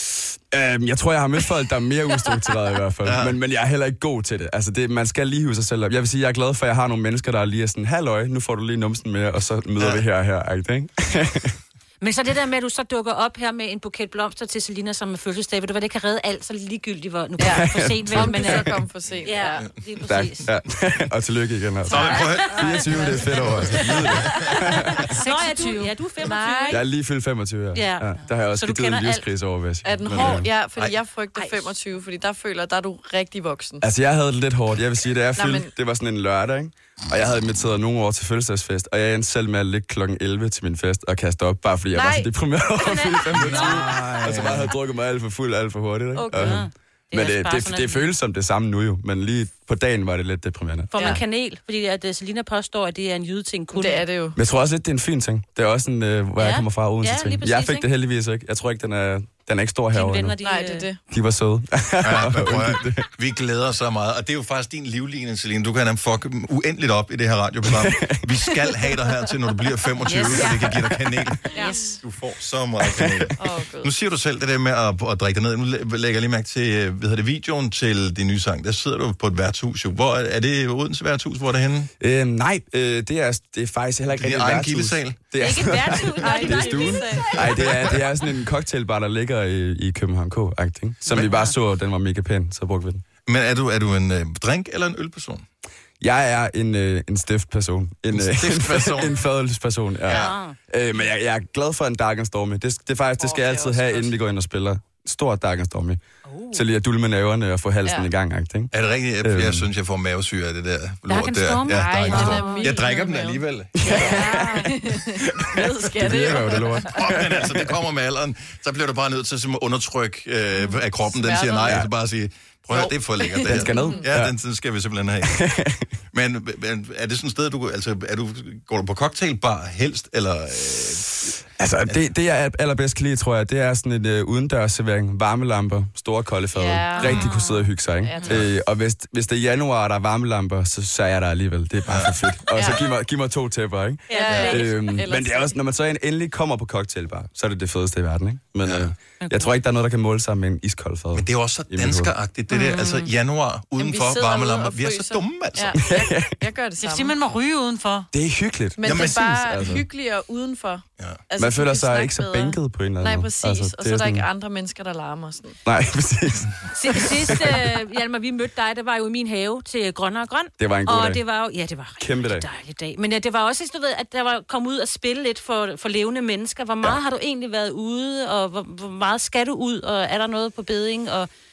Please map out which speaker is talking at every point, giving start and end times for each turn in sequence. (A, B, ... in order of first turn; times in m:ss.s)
0:00.5-0:11.6 A
0:03.0-0:03.4 B
0:09.8-0:10.0 B
0:12.0-0:20.5 C
0:17.4-0:19.7 D
0:17.4-0:18.8 A
0:20.1-0:25.1 A
0:21.9-0:26.9 C
0:21.9-0:24.3 B
0:25.1-0:26.8 E
0:26.7-0:30.5 A
0:27.7-0:29.3 C
0:29.8-0:33.8 D
0:31.3-0:31.7 C
0:33.8-0:51.2 A
0:35.4-0:35.7 D
0:41.9-0:42.3 D
0:42.8-0:43.9 C
0:42.8-0:43.1 D
0:43.3-0:44.7 B
0:46.2-0:46.6 D
0:46.3-0:48.1 C
0:50.9-0:54.0 C
0:51.0-0:51.2 D
0:53.7-0:54.4 D
0:54.4-1:00.4 A
0:56.4-0:57.9 C
0:59.9-1:00.9 C
1:00.4-1:01.0 D
1:01.1-1:03.1 A
1:02.0-1:11.4 B
1:07.6-1:08.8 A
1:10.1-1:10.4 E
1:10.1-1:10.9 C
1:11.5-1:11.8 C
1:11.5-1:12.0 D
1:12.0-1:21.9 B
1:12.8-1:13.3 A
1:13.4-1:13.9 D
1:22.0-1:33.0 A
1:24.1-1:25.2 B
1:25.4-1:27.6 C
1:26.2-1:27.6 D
1:27.4-1:27.7 B
1:31.1-1:31.5 C
1:33.3-1:35.4 B
1:36.0-1:46.0 A
1:38.1-1:39.2 B
1:40.0-1:40.3 B
1:40.0-1:40.6 C
1:43.2-1:44.1 D
1:46.3-1:46.6 C
1:46.5-1:49.7 A
1:47.8-1:48.1 D
1:48.7-1:54.3 B
1:51.1-1:52.8 C
1:51.7-1:57.2 D
1:53.8-1:57.8 A
1:56.9-2:05.4 B
2:01.2-2:01.9 D
2:01.6-2:01.9 A
2:02.7-2:04.1 D
2:03.4-2:04.3 A
2:05.2-2:05.9 A
2:06.1-2:11.3 B
2:11.6-2:32.1 A
2:16.5-2:17.2 D
2:16.9-2:18.3 C
2:18.0-2:18.4 D
2:21.9-2:22.7 B
2:22.5-2:22.8 D
2:24.1-2:24.7 C
2:24.1-2:25.6 D
2:28.6-2:28.9 B
2:31.1-2:35.8 B
2:32.5-2:33.1 C
2:33.8-2:37.2 D
2:35.8-2:36.4 A
2:36.8-2:38.1 E
2:38.1-2:39.9 A
2:38.8-2:45.6 D
2:38.8-2:39.3 B
2:41.4-2:44.3 A
2:45.6-2:47.7 A
2:46.7-3:01.3 C
2:50.6-2:51.2 A
2:52.0-2:52.5 A